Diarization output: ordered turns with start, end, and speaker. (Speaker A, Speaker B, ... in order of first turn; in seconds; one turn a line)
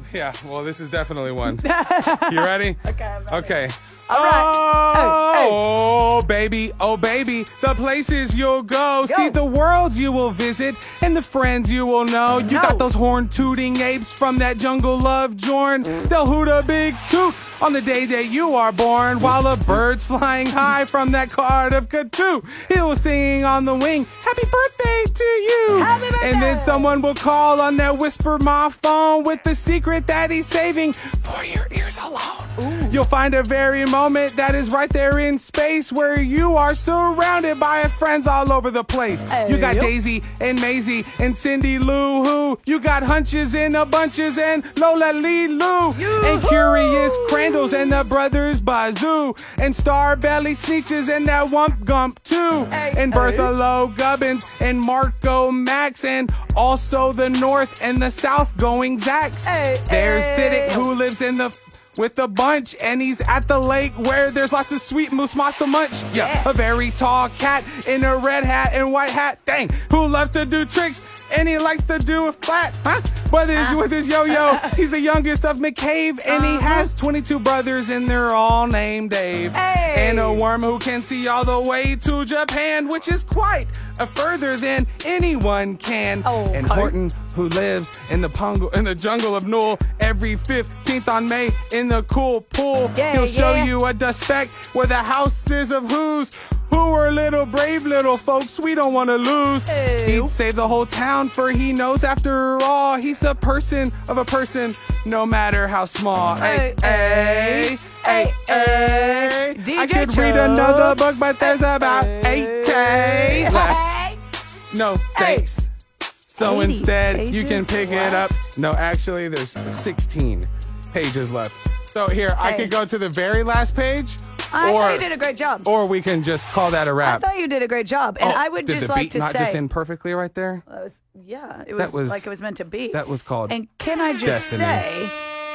Speaker A: 0.1-113.9
Speaker B: 1.4-5.6
Speaker B: 9.0-9.4
Speaker B: 12.4-12.9
Speaker B: 25.7-27.0
Speaker B: 32.6-33.0
Speaker B: 39.3-39.9
Speaker B: 45.9-48.0
Speaker B: 52.7-53.5
Speaker B: 59.4-60.9
Speaker B: 66.1-66.5
Speaker B: 73.6-74.8
Speaker B: 76.2-76.9
Speaker B: 79.5-80.5
Speaker B: 86.2-87.0
Speaker B: 92.9-93.7
Speaker B: 99.7-100.3
Speaker B: 106.4-114.2
Speaker A: 114.7-115.7
Speaker B: 115.2-115.5
Speaker A: 116.3-125.1
Speaker B: 116.4-118.3
Speaker B: 122.4-122.8
Speaker B: 124.5-125.7
Speaker A: 125.6-127.3
Speaker B: 127.0-129.6
Speaker A: 128.2-130.6
Speaker B: 130.7-135.2
Speaker A: 131.8-132.3
Speaker A: 132.9-133.6
Speaker A: 134.2-134.9